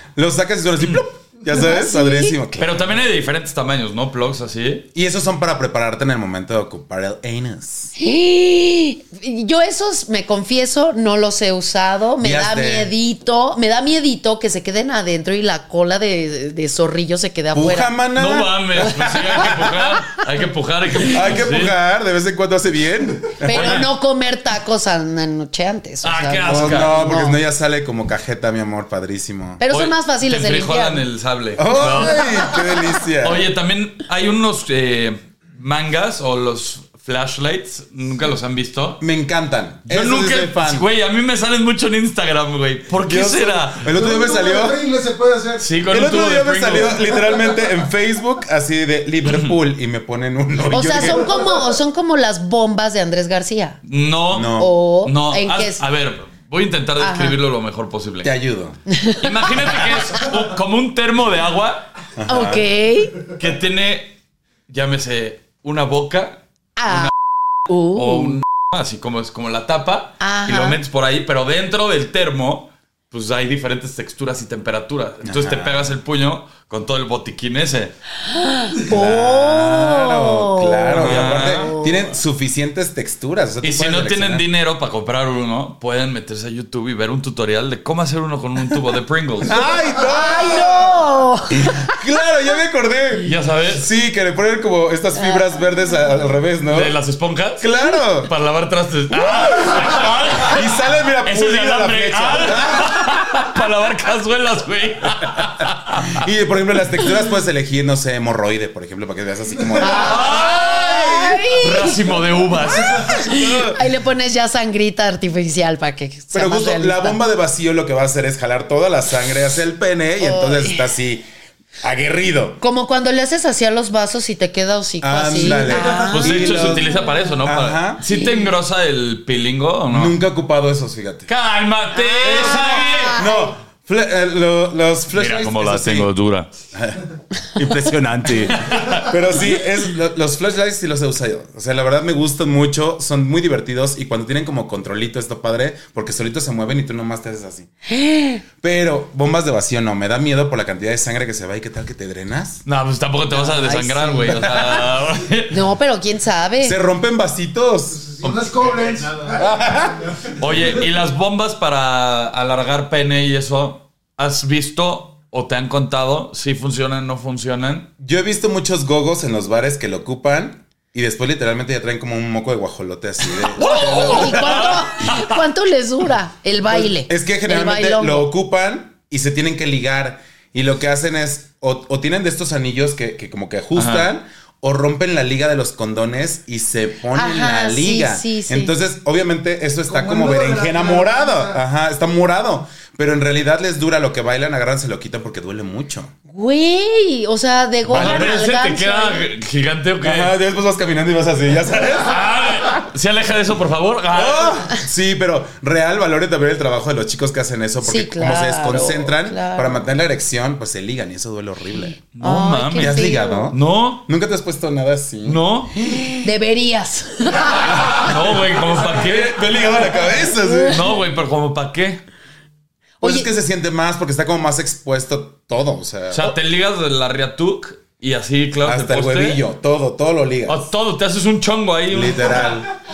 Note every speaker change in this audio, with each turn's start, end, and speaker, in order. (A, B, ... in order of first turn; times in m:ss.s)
0:00.1-0:03.0 A
0:01.5-0:02.4 B
0:02.6-0:04.9 C
0:04.9-0:07.9 A
0:08.0-0:17.9 B
0:12.2-0:12.9 A
0:17.5-0:19.7 A
0:18.2-0:21.7 C
0:21.0-0:23.8 A
0:23.4-0:27.4 B
0:23.5-0:23.8 C
0:26.0-0:27.0 C
0:26.4-0:29.6 A
0:29.6-0:31.0 B
0:29.7-0:32.5 C
0:31.6-0:33.4 A
0:31.9-0:32.9 D
0:33.2-0:39.0 C
0:39.0-0:40.9 A
0:39.8-0:43.8 C
0:42.9-0:44.8 A
0:43.9-0:45.7 D
0:45.6-0:47.0 C
0:45.9-0:51.3 A
0:47.0-0:47.7 D
0:49.2-0:49.6 C
0:50.7-0:53.8 B
0:51.0-0:51.6 D
0:53.8-0:58.3 C
0:54.3-0:54.7 A
0:54.5-0:55.8 B
0:57.0-0:57.4 B
0:58.2-0:58.8 A
0:58.9-0:59.9 B
0:59.2-1:01.9 C
1:02.2-1:02.7 A
1:02.2-1:03.2 B
1:03.3-1:07.1 C
1:06.8-1:07.1 B
1:07.7-1:08.4 B
1:07.9-1:17.9 C
1:10.2-1:10.8 B
1:15.2-1:15.9 A
1:18.2-1:22.2 B
1:18.8-1:24.5 A
1:20.9-1:21.7 C
1:23.6-1:29.6 C
1:29.4-1:36.9 A
1:30.0-1:31.9 B
1:33.2-1:33.8 C
1:35.1-1:35.5 B
1:36.7-1:37.7 C
1:37.6-1:38.3 A
1:38.2-1:40.7 C
1:40.4-1:42.9 A
1:41.2-1:46.2 C
1:46.0-1:51.5 A
1:49.8-1:52.0 B
1:49.9-1:53.0 C
1:52.7-1:53.8 A
1:52.7-1:57.2 B
1:56.3-2:01.3 A
2:00.2-2:00.9 B
2:01.8-2:02.6 A
2:02.6-2:07.1 B
2:05.0-2:08.0 A
2:05.4-2:10.2 C
2:08.1-2:08.5 B
2:09.9-2:11.3 A
2:11.3-2:13.2 C
2:11.9-2:13.5 B
2:12.2-2:16.1 A
2:15.1-2:16.5 C
2:16.7-2:17.0 A
2:17.5-2:27.7 A
2:18.5-2:19.1 C
2:27.8-2:28.4 B
2:28.6-2:32.6 A
2:32.6-2:35.6 C
2:33.3-2:34.6 B
2:34.2-2:34.8 A
2:35.5-2:36.8 B
2:36.6-2:38.0 A
2:37.9-2:40.4 D
2:38.2-2:39.1 C
2:39.4-2:40.0 A
2:40.4-2:47.9 C
2:48.0-2:55.2 A
2:53.5-2:55.4 C
2:53.6-2:58.3 B
2:56.7-3:16.1 A
3:03.7-3:04.1 C
3:07.1-3:08.7 B
3:09.9-3:11.6 D
3:16.3-3:19.3 B
3:17.8-3:18.4 A
3:17.9-3:20.3 C
3:20.0-3:22.6 A
3:22.0-3:24.6 C
3:24.1-3:32.0 A
3:27.8-3:29.8 B
3:32.0-3:33.5 B
3:32.2-3:34.0 C
3:32.8-3:36.1 A
3:35.2-3:35.8 C
3:35.8-3:38.1 B
3:37.6-3:40.9 A
3:38.0-3:39.3 C
3:40.3-3:41.0 B
3:40.7-3:42.0 C
3:43.0-3:43.3 B
3:43.0-3:46.3 A
3:46.1-3:49.4 C
3:48.6-3:50.7 A
3:50.5-3:52.6 C
3:51.9-3:52.7 A